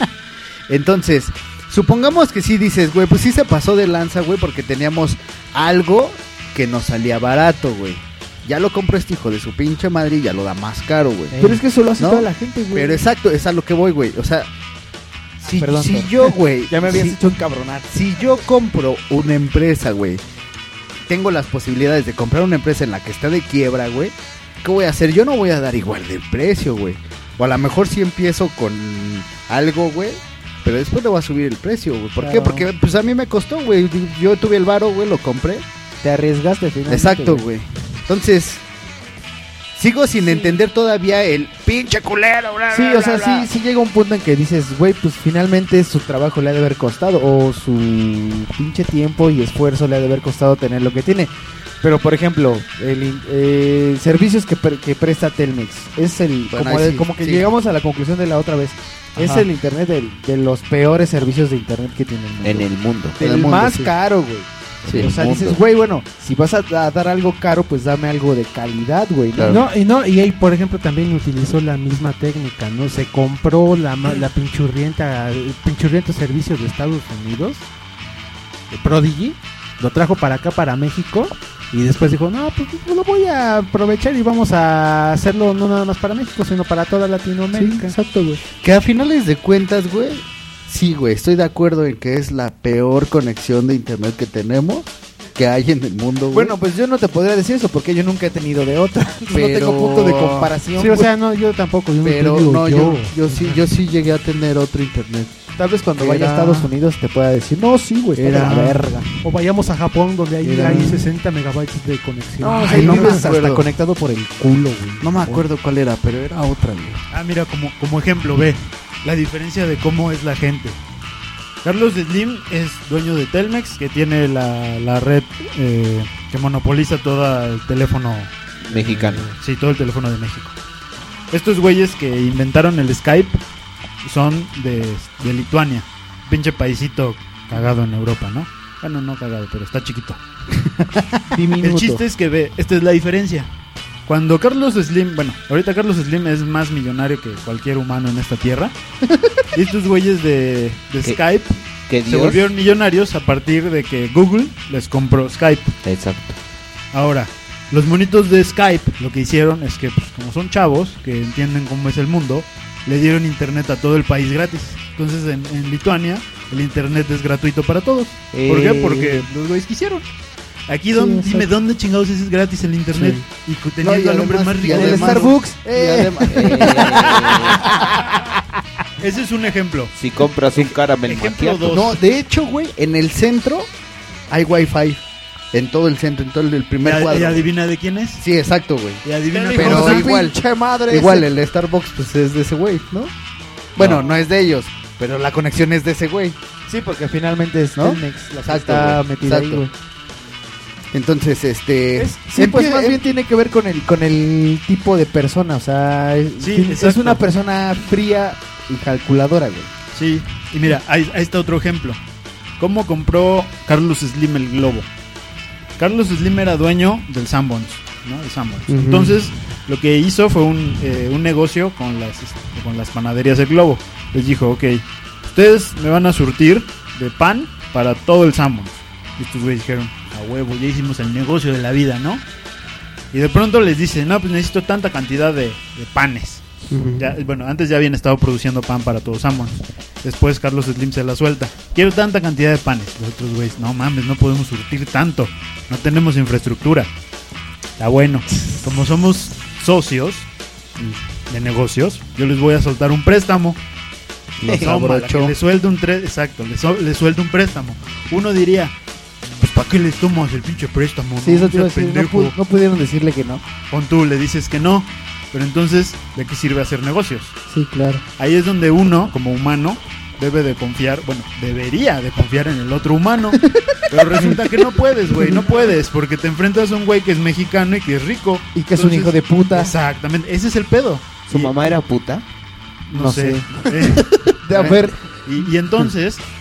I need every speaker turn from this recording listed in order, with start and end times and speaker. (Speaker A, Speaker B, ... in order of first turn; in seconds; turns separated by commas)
Speaker A: 0.7-14.5, Speaker B: 11.3-13.0, Speaker A: 15.4-17.2, Speaker B: 15.5-17.9, Speaker A: 17.9-20.2, Speaker A: 21.1-35.6, Speaker B: 32.2-32.7, Speaker B: 36.0-37.5, Speaker A: 36.9-38.6, Speaker A: 39.8-43.5, Speaker B: 40.2-40.6, Speaker B: 42.7-62.7, Speaker A: 56.5-57.5, Speaker A: 59.2-59.4, Speaker C: 62.4-63.2, Speaker B: 63.2-69.6, Speaker A: 63.2-63.9, Speaker A: 64.8-65.1, Speaker C: 65.0-65.6, Speaker A: 69.4-69.6, Speaker D: 69.5-77.7, Speaker D: 78.7-88.0, Speaker B: 87.5-88.4, Speaker A: 88.6-96.5, Speaker B: 96.3-101.1, Speaker A: 99.3-100.5, Speaker D: 100.7-103.6, Speaker A: 102.0-105.3, Speaker B: 105.6-109.1, Speaker A: 106.0-106.7, Speaker A: 108.2-109.0, Speaker D: 109.2-113.2, Speaker A: 110.4-111.1, Speaker B: 110.5-111.0, Speaker B: 112.4-115.4, Speaker A: 112.6-113.7, Speaker A: 115.0-117.0, Speaker E: 117.1-120.8, Speaker E: 121.6-130.6, Speaker C: 128.6-129.3, Speaker E: 131.3-133.4, Speaker E: 134.0-140.2, Speaker B: 141.3-142.0, Speaker E: 141.6-143.5, Speaker E: 144.1-148.7, Speaker E: 149.5-151.6, Speaker C: 151.9-152.5, Speaker E: 152.1-155.8, Speaker C: 155.8-156.4, Speaker E: 156.9-170.1, Speaker C: 168.3-169.2, Speaker E: 170.7-175.3, Speaker B: 170.9-171.5, Speaker A: 173.8-177.9, Speaker B: 174.7-176.9, Speaker C: 176.3-177.7, Speaker E: 179.0-179.9, Speaker C: 179.9-181.8, Speaker E: 180.6-182.0, Speaker A: 181.7-183.7, Speaker A: 184.3-187.5, Speaker E: 186.8-188.2, Speaker A: 188.2-193.1, Speaker E: 189.0-190.1, Speaker B: 189.3-191.3, Speaker A: 193.8-196.4, Speaker B: 196.7-199.7, Speaker A: 197.8-199.6, Speaker A: 200.9-203.0, Speaker B: 202.0-209.7, Speaker E: 206.4-207.3, Speaker E: 209.9-212.0, Speaker E: 212.6-214.9, Speaker E: 215.8-232.2, Speaker A: 218.7-219.2, Speaker E: 233.1-236.4, Speaker A: 236.7-237.1, Speaker E: 237.0-246.9, Speaker E: 247.8-250.3, Speaker E: 250.8-253.6, Speaker C: 254.4-254.7, Speaker A: 254.4-255.3, Speaker E: 254.5-258.7, Speaker E: 259.4-262.4, Speaker B: 261.2-263.4, Speaker E: 263.7-267.4, Speaker B: 267.5-268.0, Speaker E: 268.2-281.6, Speaker B: 274.1-274.4, Speaker B: 275.1-275.4, Speaker B: 278.6-279.7, Speaker C: 281.3-282.2, Speaker E: 282.9-286.2, Speaker B: 282.9-284.9